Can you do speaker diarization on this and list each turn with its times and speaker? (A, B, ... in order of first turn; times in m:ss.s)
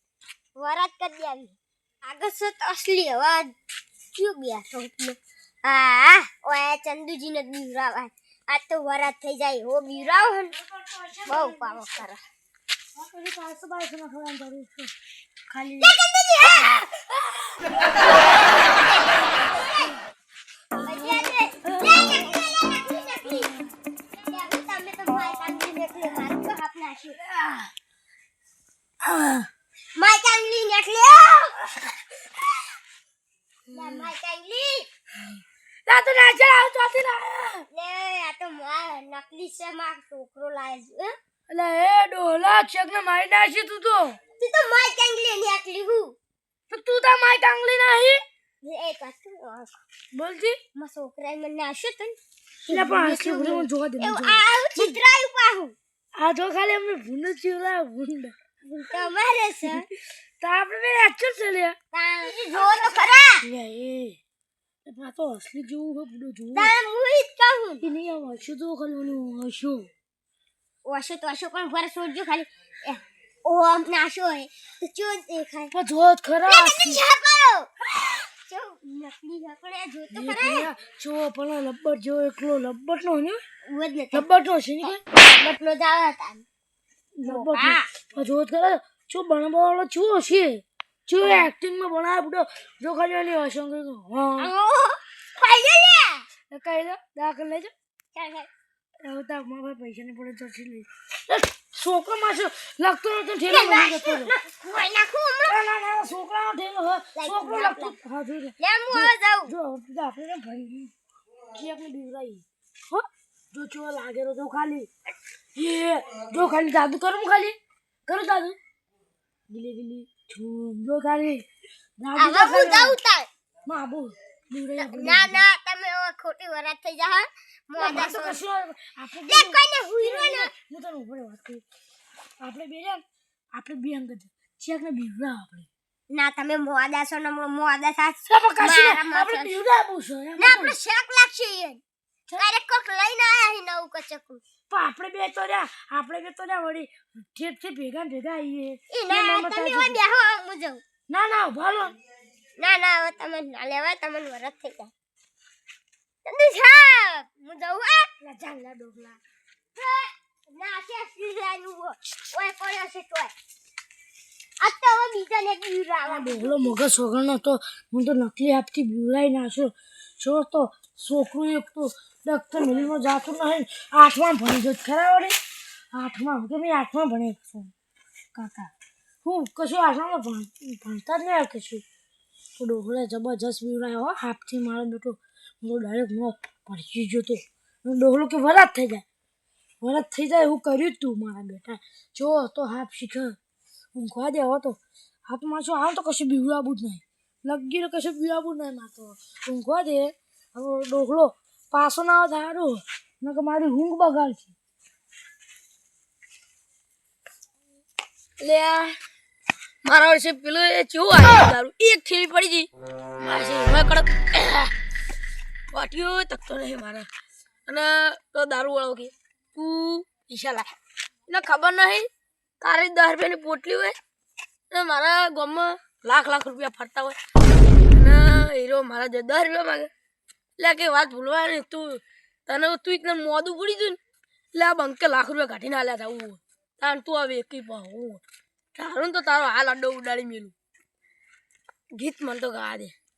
0:00.6-0:03.5 A
0:04.2-0:10.6 A
0:10.5-0:12.1 B
0:11.2-0:12.2 A
0:13.0-0:14.9 B
0:15.5-0:15.9 B
0:15.8-0:16.9 A
0:17.7-0:20.0 A
0:20.8-0:23.6 A
0:24.2-0:27.2 A
0:27.2-0:27.7 B
0:29.0-0:29.5 B
0:30.0-0:31.7 A
0:33.7-0:34.9 A
0:33.7-0:34.1 B
0:35.9-0:37.6 B
0:37.7-0:41.2 A
0:41.5-0:44.2 B
0:44.4-0:46.2 A
0:46.7-0:48.2 B
0:48.6-0:49.8 A
0:50.1-0:50.6 B
0:50.8-0:55.8 A
0:52.7-0:55.0 B
0:56.2-0:58.3 B
0:58.7-0:59.9 A
0:59.6-0:59.9 B
1:00.4-1:01.8 B
1:01.9-1:03.4 A
1:03.4-1:04.2 B
1:04.9-1:06.7 B
1:06.5-1:07.8 A
1:07.8-1:09.9 B
1:10.8-1:15.7 A
1:15.7-1:17.0 B
1:16.4-1:20.7 A
1:20.1-1:23.4 B
1:23.7-1:24.3 A
1:24.1-1:25.0 B
1:24.8-1:26.4 A
1:27.2-1:34.5 B
1:27.2-1:27.9 A
1:31.2-1:31.5 A
1:34.4-1:36.3 A
1:36.5-1:37.7 B
1:38.1-1:38.5 A
1:39.0-1:44.3 B
1:43.5-1:45.6 A
1:45.4-1:50.9 B
1:47.2-1:48.0 A
1:48.6-1:49.5 A
1:51.5-1:54.9 B
1:55.6-1:57.6 B
1:58.1-1:58.6 B
1:59.5-2:01.4 B
2:02.0-2:03.0 B
2:02.2-2:03.3 A
2:03.7-2:05.5 B
2:04.8-2:08.4 A
2:07.8-2:11.6 B
2:09.2-2:10.5 A
2:12.4-2:13.0 B
2:13.6-2:15.7 B
2:16.1-2:19.6 A
2:18.3-2:20.8 B
2:20.4-2:21.8 A
2:22.4-2:24.4 A
2:24.7-2:30.0 B
2:28.9-2:30.8 A
2:31.1-2:32.0 B
2:32.6-2:34.9 A
2:36.2-2:38.1 A
2:38.2-2:39.2 B
2:39.7-2:43.3 A
2:44.6-2:47.0 A
2:46.1-2:55.4 B
2:55.9-2:57.7 B
2:58.4-2:58.7 B
2:59.2-3:01.8 B
3:02.6-3:09.0 B
3:09.8-3:13.4 B
3:14.0-3:14.8 B
3:15.3-3:24.5 B
3:28.4-3:29.0 C
3:29.8-3:32.7 C
3:33.2-3:34.7 C
3:35.7-3:37.1 C
3:37.7-3:40.7 C
3:41.3-3:42.1 C
3:42.6-3:44.0 C
3:44.7-3:47.2 C
3:47.8-3:49.9 C
3:50.6-3:54.0 C
3:54.5-3:58.2 C
3:58.8-4:00.5 C
4:02.0-4:02.9 C